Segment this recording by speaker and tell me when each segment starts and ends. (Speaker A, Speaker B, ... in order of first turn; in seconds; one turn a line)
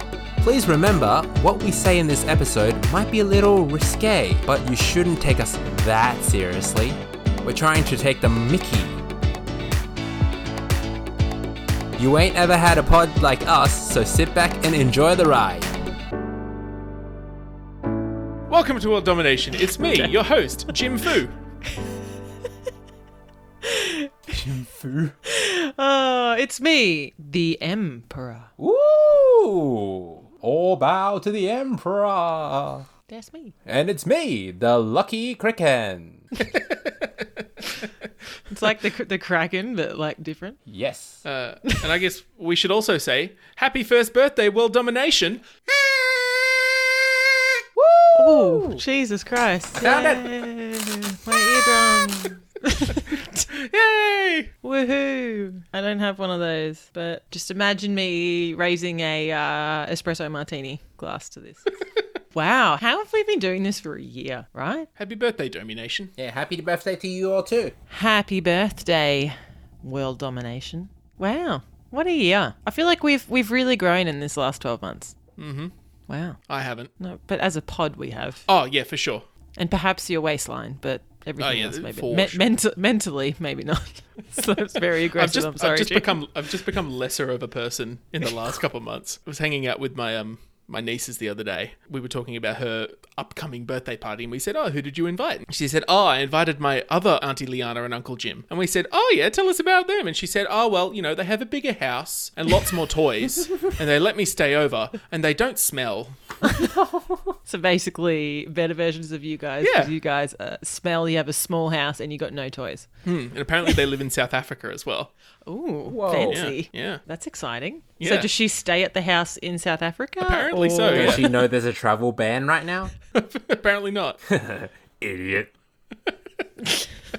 Speaker A: 0.4-9.0
Speaker A: 12.0-15.7
Speaker B: 18.5-21.4
Speaker C: 23.6-24.1
Speaker A: 24.3-25.2
Speaker C: 25.2-28.5
Speaker A: 28.6-32.9
Speaker C: 33.1-33.5
Speaker A: 33.7-36.4
Speaker C: 38.5-40.6
Speaker A: 40.7-41.2
Speaker B: 41.2-45.4
Speaker A: 47.8-48.8
Speaker C: 48.2-53.5
Speaker A: 49.8-50.3
Speaker B: 53.5-54.5
Speaker C: 54.6-61.7
Speaker C: 62.3-64.9
Speaker B: 65.0-66.1
Speaker A: 66.2-67.8
Speaker C: 67.9-75.2
Speaker B: 75.4-75.7
Speaker C: 76.1-76.4
Speaker B: 76.5-76.9
Speaker C: 77.0-78.5
Speaker B: 78.5-79.2
Speaker C: 79.6-86.2
Speaker B: 81.4-82.4
Speaker B: 85.2-106.3
Speaker C: 106.5-106.7
Speaker A: 106.7-107.4
Speaker C: 107.5-112.9
Speaker B: 109.6-109.9
Speaker B: 113.0-115.1
Speaker C: 115.5-121.4
Speaker A: 115.9-116.5
Speaker B: 116.2-117.0
Speaker B: 118.0-118.3
Speaker B: 120.2-121.3
Speaker A: 120.9-122.9
Speaker B: 123.1-124.2
Speaker A: 124.3-125.5